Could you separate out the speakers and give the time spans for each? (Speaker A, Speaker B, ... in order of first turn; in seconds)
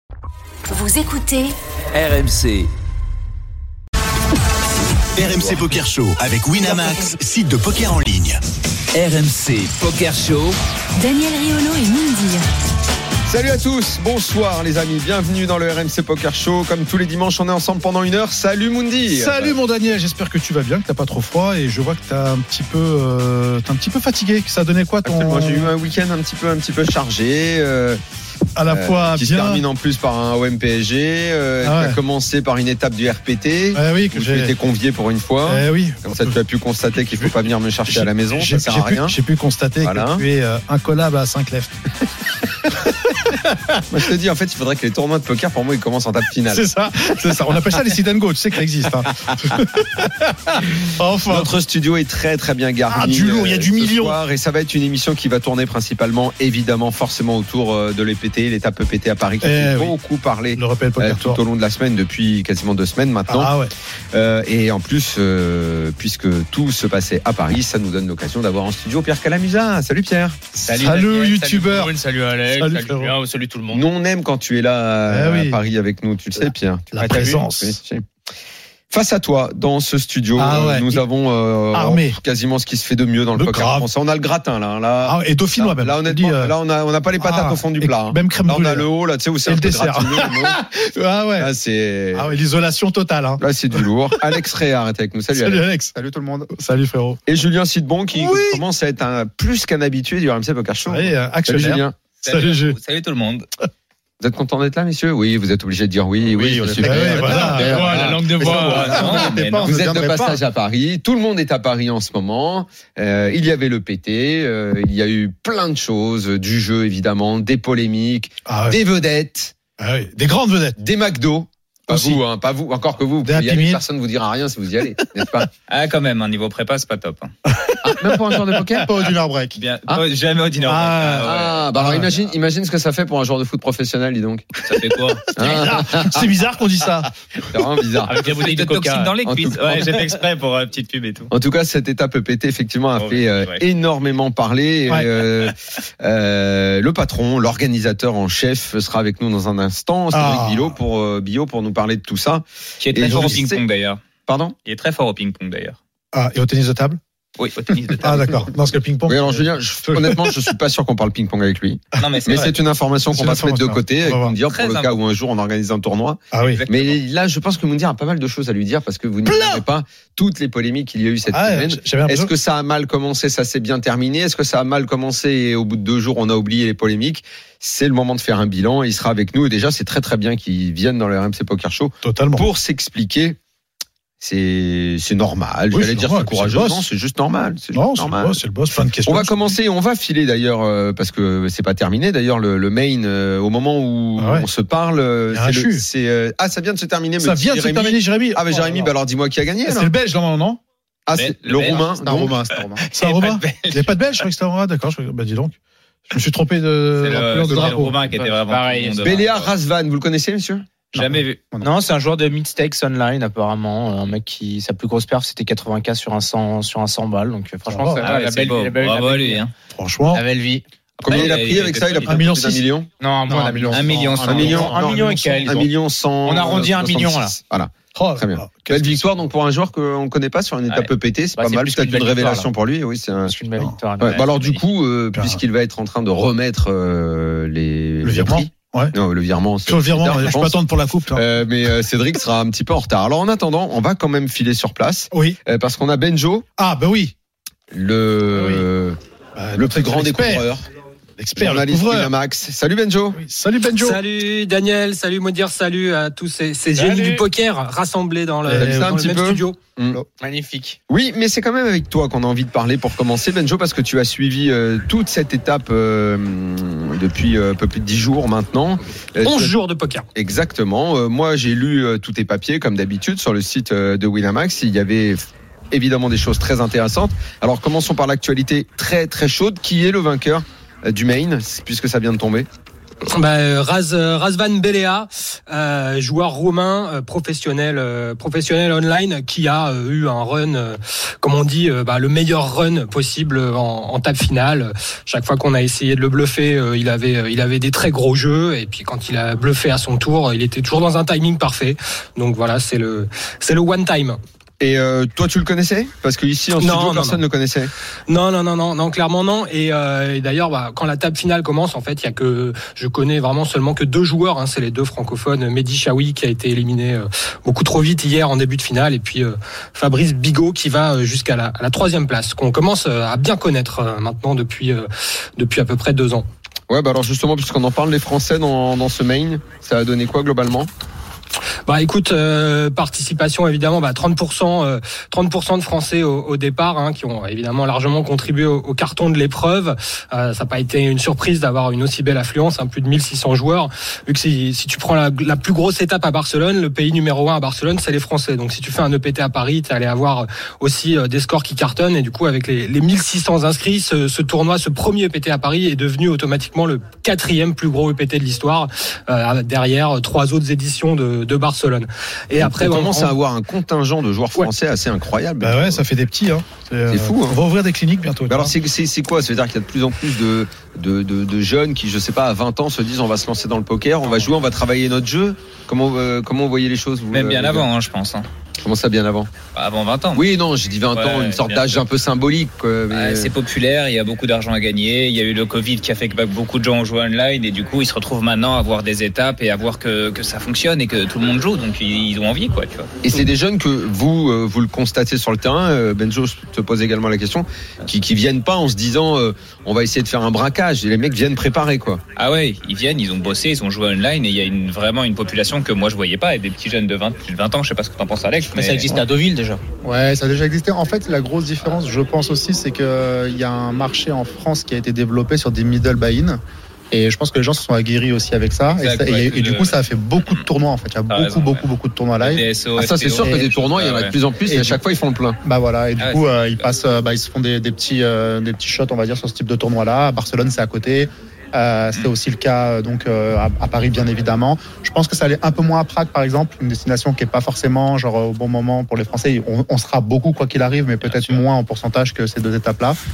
Speaker A: 0.7-1.6, 11.0-12.5
Speaker B: 1.9-2.7, 8.9-10.6
Speaker C: 5.1-8.4
Speaker D: 13.3-19.6, 25.1-28.0, 28.7-39.2, 39.8-40.2, 43.9-47.7, 51.3-63.5, 64.1-70.5, 73.7-78.0, 78.9-90.6, 91.4-92.3, 93.4-95.7, 97.3-102.0, 104.2-109.1, 109.6-119.5, 120.8-125.5, 127.8-128.9, 131.2-134.5, 135.3-136.3, 137.5-138.2, 139.2-139.8, 141.3-153.6, 154.2-154.5, 159.1-183.4, 184.2-188.4, 189.0-199.9, 201.1-202.3, 209.0-210.7, 221.0-222.9, 224.2-233.3, 234.0-240.6, 241.1-246.5, 247.7-249.0, 249.5-250.6, 251.4-253.2, 258.5-260.0, 260.9-269.5, 270.1-282.5, 304.6-307.7, 326.7-330.7, 362.4-365.8, 366.9-367.4, 368.3-377.7, 378.6-379.3, 380.1-383.3, 393.0-402.0, 422.8-425.4
Speaker E: 19.1-25.7, 28.6-29.6, 31.6-32.0, 33.7-34.5, 35.5-36.4, 37.9-41.8, 46.5-51.5, 52.9-54.2, 59.4-60.0, 60.5-61.4, 63.3-63.7, 70.6-73.1, 75.1-75.6, 77.0-77.8, 80.4-81.0, 81.7-82.2, 83.4-83.9, 85.0-86.5, 87.2-88.9, 89.4-91.5, 92.1-94.4, 95.3-95.9, 96.5-97.2, 98.1-98.6, 100.8-102.8, 106.8-109.3, 118.5-118.8, 119.8-120.8, 121.9-122.2, 123.2-123.8, 127.5-128.7, 130.6-132.1, 135.3-137.1, 150.1-150.8, 153.0-153.4, 156.1-157.0, 158.0-160.4, 162.0-162.5, 163.1-164.3, 166.3-166.6, 169.2-169.6, 171.3-172.3, 182.0-182.4, 185.7-186.8, 187.7-189.6, 194.2-194.5, 195.3-195.8, 197.2-198.9, 199.7-200.6, 202.9-205.6, 206.1-208.0, 217.7-218.0, 219.7-220.2, 222.1-222.7, 224.7-225.5, 227.9-229.1, 235.2-235.4, 238.0-238.9, 239.7-241.2, 245.1-245.4, 246.6-247.1, 248.3-248.7, 249.3-250.5, 251.2-252.1, 253.2-254.0, 256.8-257.2, 258.5-259.0, 365.4-368.5
Speaker F: 70.5-73.8, 76.9-77.4, 138.1-140.0, 208.0-209.2, 211.6-219.4, 220.1-220.6, 223.0-227.4, 231.3-232.5, 233.2-234.6, 260.2-260.8, 408.6-409.6
Speaker G: 95.9-96.5, 106.3-110.4, 128.8-129.6, 202.0-202.8, 207.5-207.9, 210.9-211.7, 223.3-224.8, 409.8-422.5, 423.2-423.5, 424.5-424.8, 425.4-443.0
Speaker H: 102.2-103.5, 107.6-109.8, 125.7-127.3, 129.5-131.7, 134.6-135.8, 138.2-141.3, 143.0-143.6, 152.8-154.0, 154.7-155.8, 157.4-158.5, 162.0-162.5, 164.5-164.9, 166.5-167.0, 201.2-204.2, 207.0-209.5, 210.9-211.4, 218.0-219.5, 221.0-222.2, 223.7-225.0, 377.1-378.3, 379.5-380.3, 380.9-381.8, 382.9-393.0, 402.2-408.9, 418.7-420.4, 421.1-421.6, 422.2-424.2, 426.0-426.6, 441.1-441.4
Speaker I: 253.8-259.6, 269.2-270.1, 283.1-304.2, 306.6-307.2, 308.1-326.3, 331.7-363.1